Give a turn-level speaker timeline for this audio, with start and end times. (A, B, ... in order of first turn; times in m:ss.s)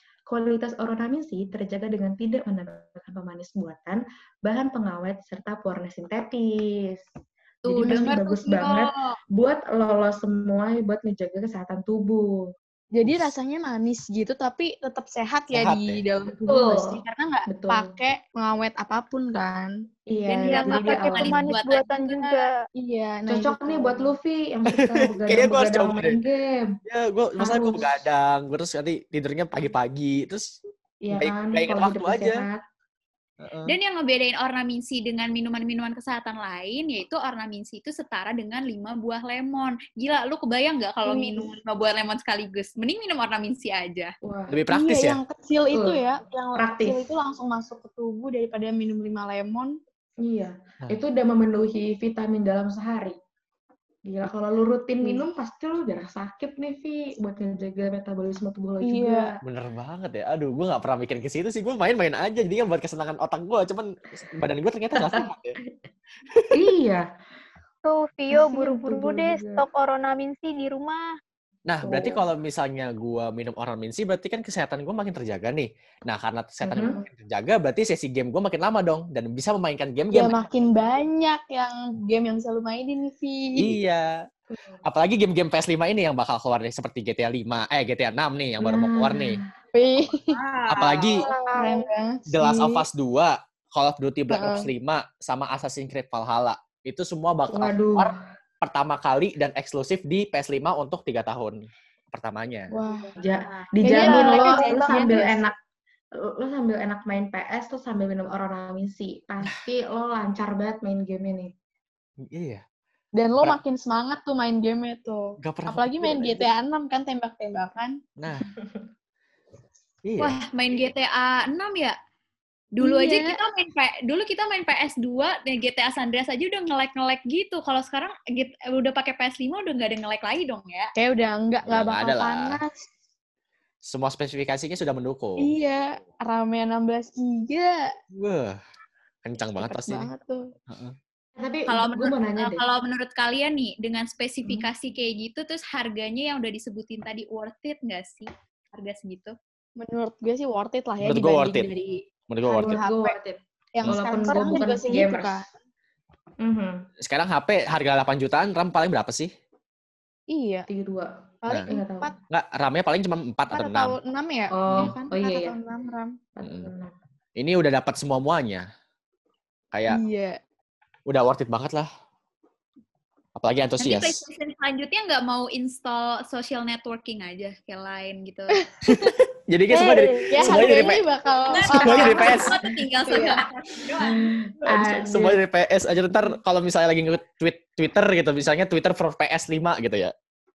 0:00.3-0:07.0 A
0:07.6-0:09.1 B
0:07.6-0:12.5 A
0:07.8-0:08.2 C
0:12.9-0:19.7 C
0:13.0-0:13.3 D
0:15.5-0:16.0 D
0:16.4-0:17.9 A
0:20.1-0:21.4 A
0:20.3-0:22.4 B
0:20.4-0:22.6 E
0:22.8-0:24.1 C
0:23.3-0:26.7 A
0:25.1-0:26.2 D
0:26.8-0:30.6 D
0:27.4-0:28.0 A
0:31.0-0:32.6 A
0:31.1-0:32.4 D
0:33.4-0:33.8 D
0:33.7-0:44.1 B
0:41.0-0:41.5 C
0:44.2-0:44.6 A
0:44.5-0:45.2 D
0:44.7-0:49.8 C
0:45.7-0:46.0 A
0:46.5-0:47.1 A
0:50.2-0:53.2 A
0:54.0-0:59.4 A
0:58.8-0:59.3 C
0:59.4-1:05.5 D
1:05.0-1:05.2 A
1:06.5-1:07.0 A
1:07.8-1:11.0 E
1:08.3-1:09.7 A
1:11.7-1:20.4 D
1:11.8-1:12.2 A
1:16.6-1:17.0 A
1:20.1-1:23.7 C
1:23.6-1:24.2 D
1:24.5-1:24.8 A
1:24.8-1:29.4 D
1:28.6-1:29.5 A
1:29.7-1:30.3 C
1:30.3-1:31.3 B
1:30.7-1:31.3 D
1:31.2-1:31.9 E
1:31.5-1:32.2 C
1:32.3-1:41.6 D
1:32.4-1:32.8 A
1:34.3-1:34.7 C
1:37.5-1:38.1 A
1:42.1-1:42.7 D
1:42.7-1:43.1 C
1:43.2-1:45.5 A
1:43.5-1:45.4 B
1:43.8-1:45.4 C
1:46.2-1:51.5 A
1:52.2-1:52.6 D
1:53.2-1:58.0 C
1:55.4-1:56.5 D
1:58.2-1:58.5 D
1:58.4-1:58.8 A
2:00.0-2:00.4 D
2:00.2-2:02.0 B
2:02.7-2:10.9 B
2:02.8-2:03.4 C
2:11.0-2:12.9 C
2:11.6-2:12.6 D
2:13.8-2:15.5 D
2:15.4-2:17.9 C
2:18.1-2:18.6 D
2:19.2-2:20.1 D
2:19.6-2:20.5 C
2:20.7-2:21.0 D
2:21.4-2:22.6 A
2:21.7-2:29.4 B
2:29.8-2:33.2 C
2:31.0-2:31.7 D
2:32.3-2:32.8 D
2:32.6-2:35.4 A
2:33.7-2:35.5 C
2:33.8-2:34.5 D
2:36.4-2:36.8 A
2:37.0-2:39.3 D
2:40.3-2:40.7 C
2:40.7-2:41.1 A
2:41.4-2:42.1 C
2:41.5-2:41.7 D
2:41.7-2:42.1 A
2:42.3-2:44.0 D
2:43.5-2:46.2 C
2:44.5-2:45.6 A
2:46.4-2:46.9 A
2:46.4-2:46.7 D
2:47.4-2:48.6 D
2:49.7-2:50.0 D
2:49.9-2:50.4 C
2:51.1-2:51.9 D
2:53.4-2:54.2 D
2:53.8-2:58.5 B
2:58.9-3:01.0 D
2:59.7-3:00.2 E
3:00.3-3:02.5 C
3:01.5-3:04.1 B
3:01.6-3:02.6 D
3:01.8-3:02.5 A
3:03.1-3:03.4 A
3:03.1-3:03.4 C
3:04.0-3:05.4 A
3:04.6-3:10.1 D